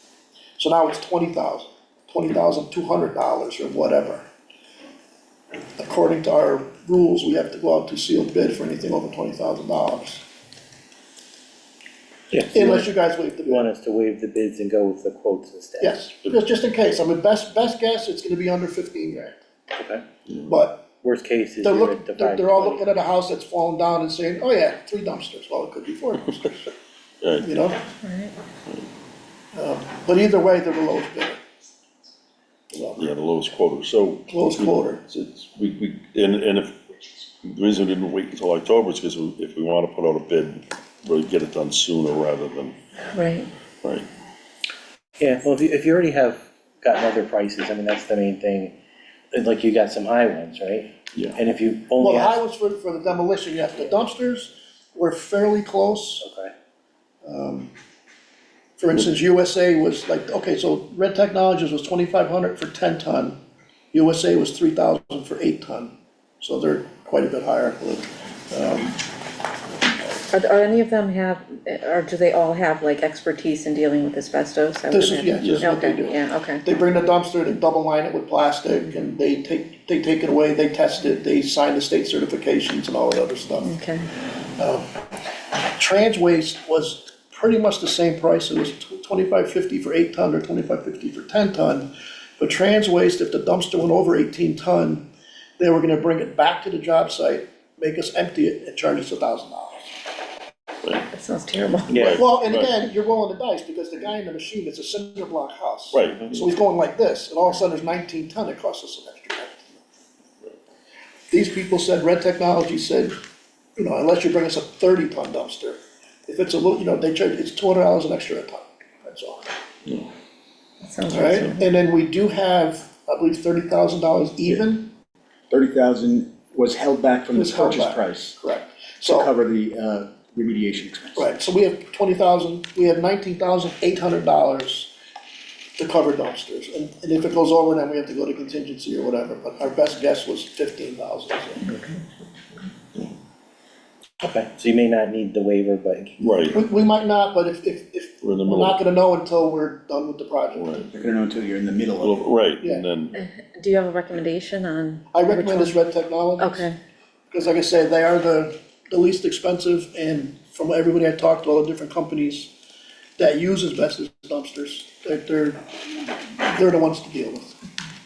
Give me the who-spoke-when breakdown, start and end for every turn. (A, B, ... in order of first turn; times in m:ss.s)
0:00.6-0:04.3 A
0:05.8-0:10.2 A
0:12.3-0:12.9 B
0:12.5-0:13.7 A
0:13.5-0:16.0 B
0:15.8-0:19.4 A
0:19.8-0:20.0 B
0:20.5-0:20.9 A
0:21.0-0:22.9 B
0:21.6-0:26.7 A
0:27.2-0:27.5 C
0:27.4-0:27.8 A
0:28.0-0:28.4 D
0:29.6-0:31.4 A
0:32.7-0:33.0 A
0:33.0-0:42.7 C
0:34.3-0:35.0 A
0:43.1-0:43.5 D
0:45.2-0:48.8 B
0:49.3-0:52.4 B
0:52.0-0:56.2 A
0:56.2-0:56.5 B
0:57.2-0:57.7 A
0:58.8-1:03.4 A
1:03.9-1:09.0 A
1:10.3-1:16.6 D
1:14.9-1:23.8 A
1:15.4-1:15.7 C
1:23.6-1:24.1 D
1:24.6-1:25.0 A
1:25.6-1:35.1 A
1:35.6-1:39.9 A
1:41.0-1:42.1 D
1:41.9-1:42.8 C
1:41.9-1:42.2 B
1:42.2-1:49.6 A
1:45.9-1:46.5 C
1:51.3-1:53.2 A
1:53.8-1:59.5 A
2:00.8-2:01.7 D
2:01.1-2:04.9 A
2:05.5-2:08.4 E
2:07.3-2:09.3 A
2:09.0-2:11.3 E
2:11.2-2:14.9 A
2:15.8-2:21.8 A
2:24.2-2:26.2 B
2:26.2-2:26.6 C
2:26.5-2:30.8 A
2:28.2-2:28.8 C
2:30.6-2:30.9 C
2:30.9-2:32.3 E
2:32.0-2:33.2 C
2:32.6-2:32.9 A
2:33.2-2:35.8 D
2:35.1-2:36.7 A
2:36.4-2:36.8 D
2:37.3-2:42.5 A
2:43.2-2:45.6 A
2:46.2-2:47.6 A